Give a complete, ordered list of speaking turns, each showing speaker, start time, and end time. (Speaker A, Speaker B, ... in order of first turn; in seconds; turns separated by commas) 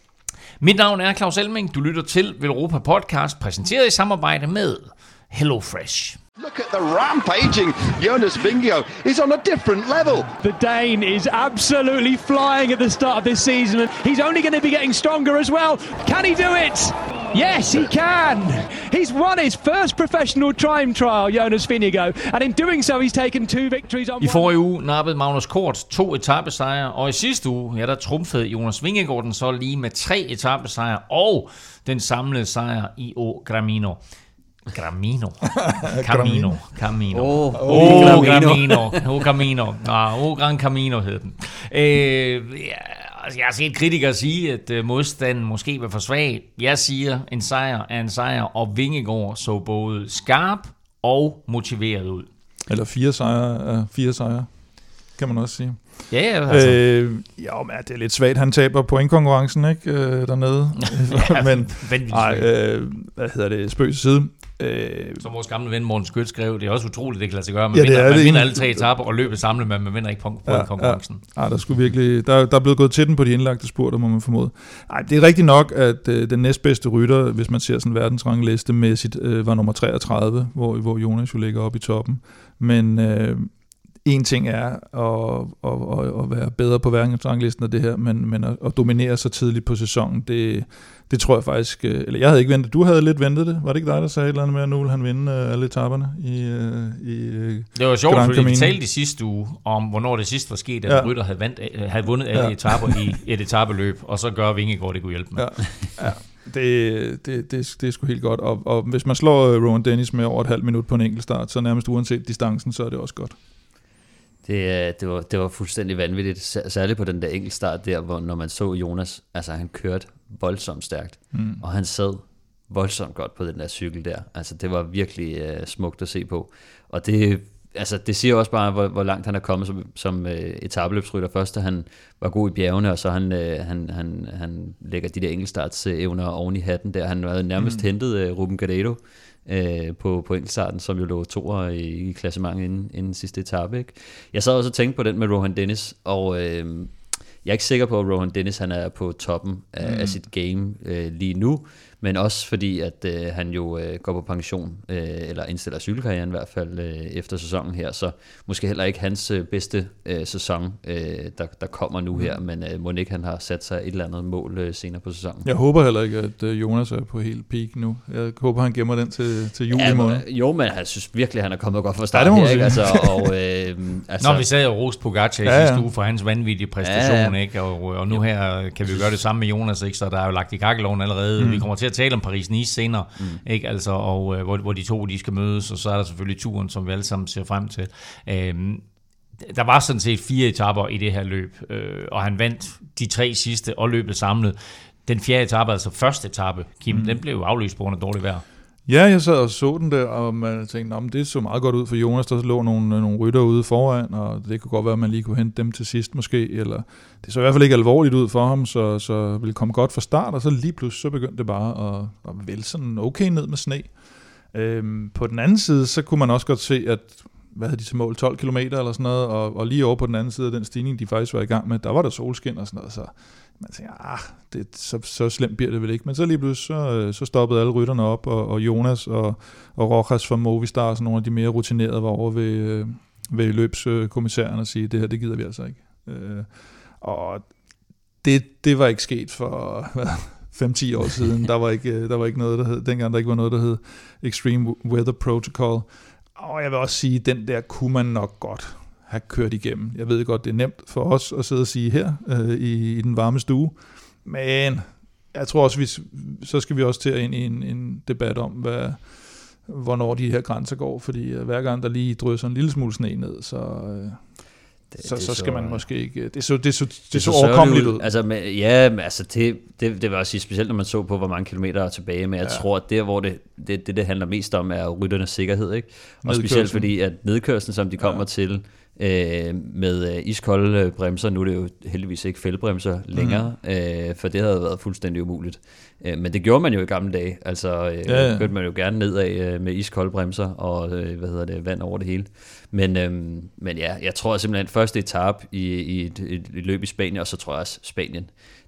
Speaker A: 0.6-6.2, Speaker B: 6.4-10.3, Speaker C: 10.4-24.5, Speaker A: 24.2-34.0, Speaker A: 34.7-52.3, Speaker D: 35.6-36.6, Speaker E: 37.1-39.0, Speaker D: 37.5-38.6, Speaker D: 52.7-54.5, Speaker D: 55.1-65.2, Speaker A: 56.1-56.8, Speaker A: 60.9-62.5, Speaker A: 65.2-71.2, Speaker D: 67.7-68.9, Speaker D: 70.5-83.5, Speaker D: 84.0-98.8, Speaker A: 97.8-105.5, Speaker D: 100.9-101.1, Speaker D: 102.3-103.1, Speaker D: 105.3-113.4, Speaker E: 114.4-165.5, Speaker D: 121.3-121.6, Speaker D: 137.6-137.8, Speaker D: 149.8-150.2, Speaker D: 165.4-170.2, Speaker E: 169.7-174.5, Speaker D: 172.1-173.3, Speaker A: 174.2-188.8, Speaker D: 175.4-175.9, Speaker E: 176.8-177.4, Speaker E: 178.8-179.1, Speaker D: 181.4-181.7, Speaker A: 189.4-198.4, Speaker D: 196.9-197.2, Speaker D: 198.9-213.9, Speaker D: 214.5-237.5, Speaker D: 238.2-264.2, Speaker E: 264.9-265.8, Speaker D: 265.0-268.1, Speaker E: 267.1-298.3, Speaker D: 276.2-276.9, Speaker D: 283.1-283.5, Speaker D: 288.0-288.5